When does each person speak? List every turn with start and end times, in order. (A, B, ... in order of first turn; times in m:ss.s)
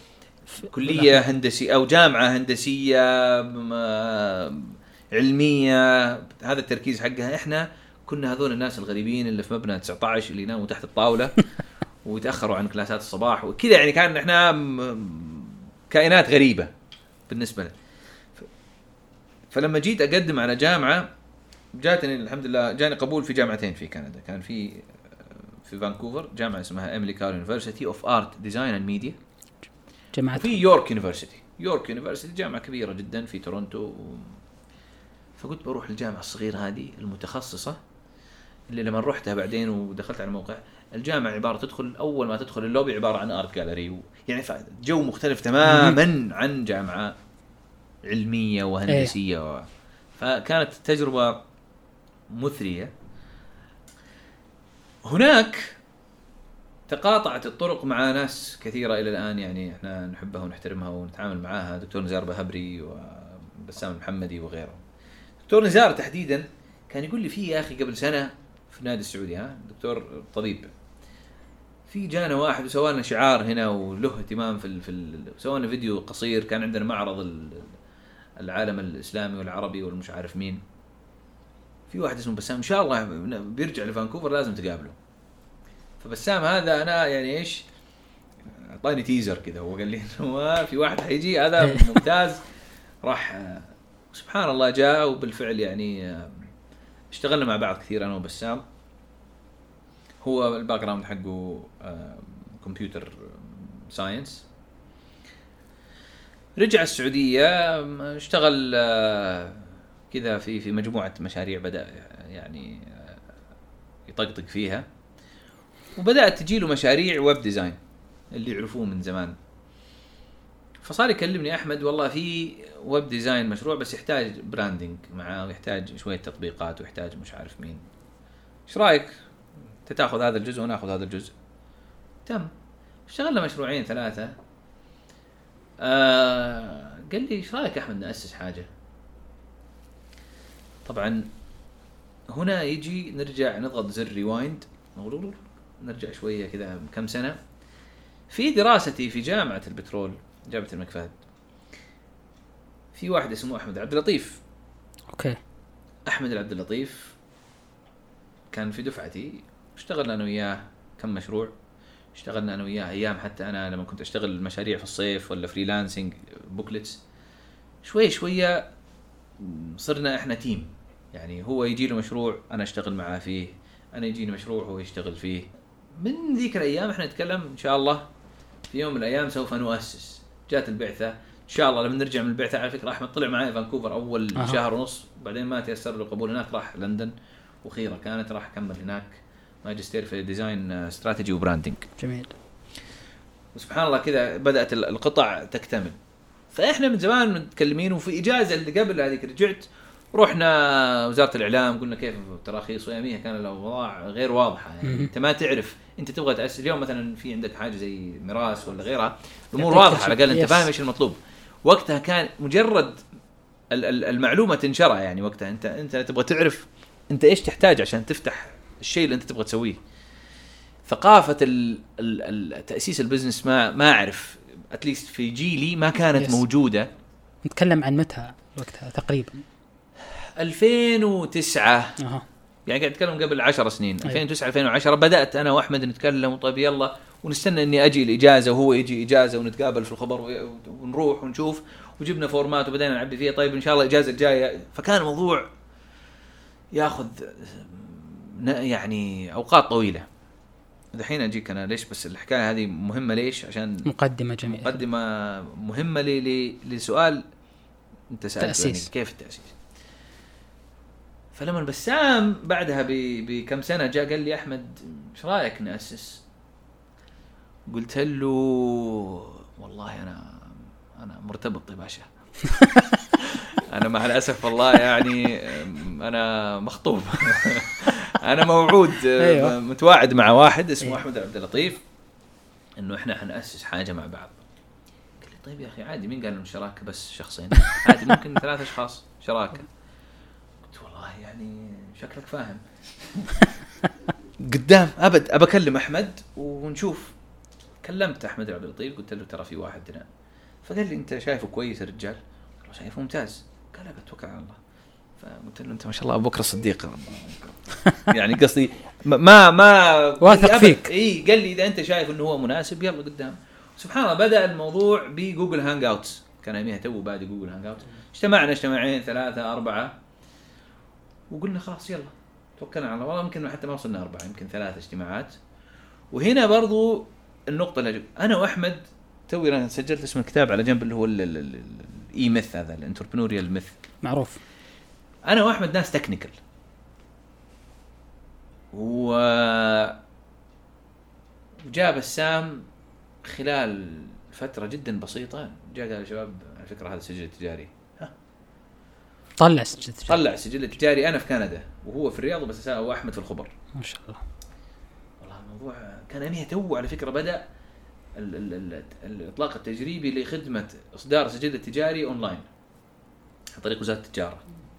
0:00.6-0:11.4 A
0:00.8-0:01.2 B
0:12.0-0:16.7 A
0:17.3-0:17.7 A
0:19.5-0:21.1 A
0:21.7-0:29.2 A
0:30.1-0:30.6 B
0:30.3-0:34.4 A
0:35.4-0:37.8 A
0:38.7-0:47.2 A
0:45.6-0:46.0 B
0:48.0-0:51.4 A
0:48.9-0:49.1 B
0:52.3-0:52.9 A
0:55.0-0:55.8 A
0:56.9-1:04.8 A
1:05.5-1:10.7 A
1:11.9-1:17.7 A
1:18.4-1:20.6 A
1:21.9-1:24.9 A
1:26.0-1:27.6 A
1:28.4-1:32.4 A
1:33.0-1:36.5 A
1:37.1-1:38.6 A
1:40.2-1:44.4 A
1:46.6-1:53.2 A
1:54.1-1:54.8 A
1:56.0-1:57.8 A
1:58.3-1:59.4 A
2:00.8-2:07.8 A
2:08.7-2:09.1 A
2:09.8-2:11.3 A
2:12.2-2:12.5 A
2:13.1-2:14.3 A
2:15.8-2:18.7 A
2:20.8-2:21.3 A
2:22.3-2:27.4 A
2:28.3-2:31.1 A
2:32.9-2:34.4 A
2:35.1-2:35.4 B
2:36.1-2:37.1 A
2:38.5-2:41.5 A
2:42.1-2:47.0 A
2:47.8-2:48.6 A
2:49.4-2:55.5 A
2:56.0-2:58.0 A
2:58.7-3:11.9 A
3:04.4-3:04.6 B
3:12.0-3:12.3 B
3:13.5-3:16.0 A
3:16.5-3:33.0 A
3:24.8-3:25.1 B
3:29.5-3:30.7 B
3:33.7-3:39.8 A
3:40.9-3:46.9 A
3:46.2-3:46.4 B
3:47.4-3:49.4 B
3:50.4-3:51.9 A
3:52.0-3:52.2 B
3:52.7-4:05.5 A
4:06.7-4:10.0 A
4:10.9-4:13.9 A
4:13.8-4:14.8 B
4:14.4-4:17.2 A
4:18.1-4:19.5 A
4:18.4-4:18.9 B
4:21.3-4:26.2 A
4:27.7-4:32.1 A
4:32.5-4:33.0 B
4:33.2-4:41.8 A
4:39.2-4:39.6 B
4:42.8-4:44.4 A
4:45.2-4:49.7 A
4:50.6-4:53.5 A
4:54.4-4:57.1 A
4:57.8-5:00.1 A
5:00.6-5:04.6 A
5:05.2-5:19.9 A
5:10.2-5:10.9 B
5:21.3-5:25.4 A
5:26.1-5:33.8 A
5:34.0-5:34.4 B
5:35.3-5:36.4 A
5:38.7-5:40.0 A
5:41.7-5:42.6 A
5:43.2-5:48.1 A
5:49.4-5:50.2 B
5:50.0-5:53.5 A
5:53.7-5:54.2 B
5:55.2-5:57.4 A
5:58.2-6:02.5 A
6:03.5-6:04.4 A